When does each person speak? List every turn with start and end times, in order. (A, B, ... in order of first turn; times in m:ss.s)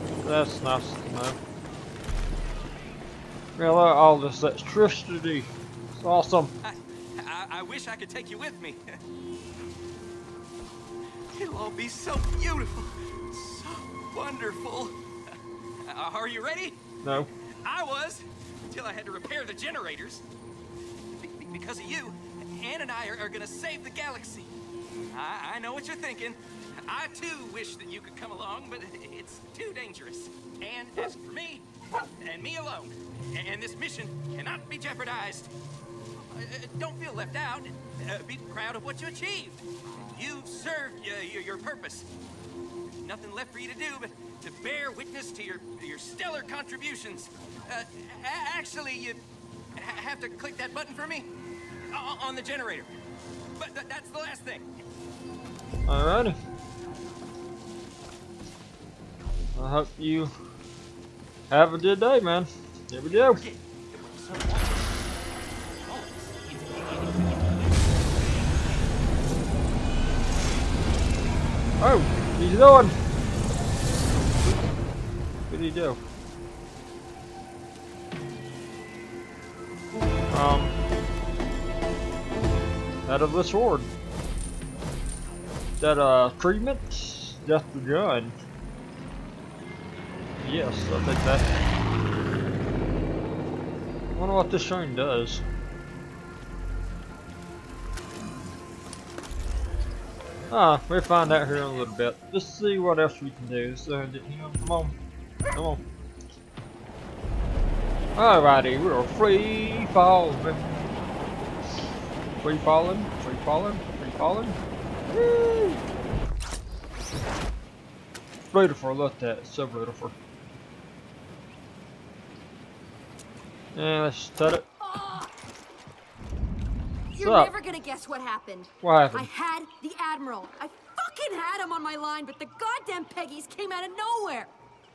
0:00.2-0:01.4 A
0:03.6-0:06.5 A
0:06.6-0:08.8 B
0:11.3-0:15.0 B
0:15.8-0:20.2 B
0:17.0-0:17.3 A
0:21.2-0:24.5 B
0:25.1-0:31.6 B
0:32.2-0:35.5 B
0:36.3-0:42.1 B
0:43.0-0:49.2 B
0:49.8-0:51.3 B
0:51.9-0:52.9 B
0:53.6-0:54.6 B
0:55.9-0:56.4 A
0:59.6-1:00.3 A
1:01.5-1:03.4 A
1:03.4-1:04.6 B
1:05.9-1:07.3 B
1:11.8-1:13.0 A
1:15.5-1:16.0 A
1:20.3-1:20.7 A
1:23.0-1:23.9 A
1:25.8-1:28.4 A
1:30.4-1:31.5 A
1:34.1-1:35.4 A
1:40.5-1:44.9 A
1:45.5-1:45.8 A
1:48.2-1:50.9 A
1:52.4-1:54.6 A
1:55.1-1:55.8 A
1:58.5-2:00.1 A
2:03.7-2:04.7 A
2:04.8-2:05.3 C
2:07.1-2:14.5 C
2:07.2-2:07.5 A
2:08.8-2:09.3 A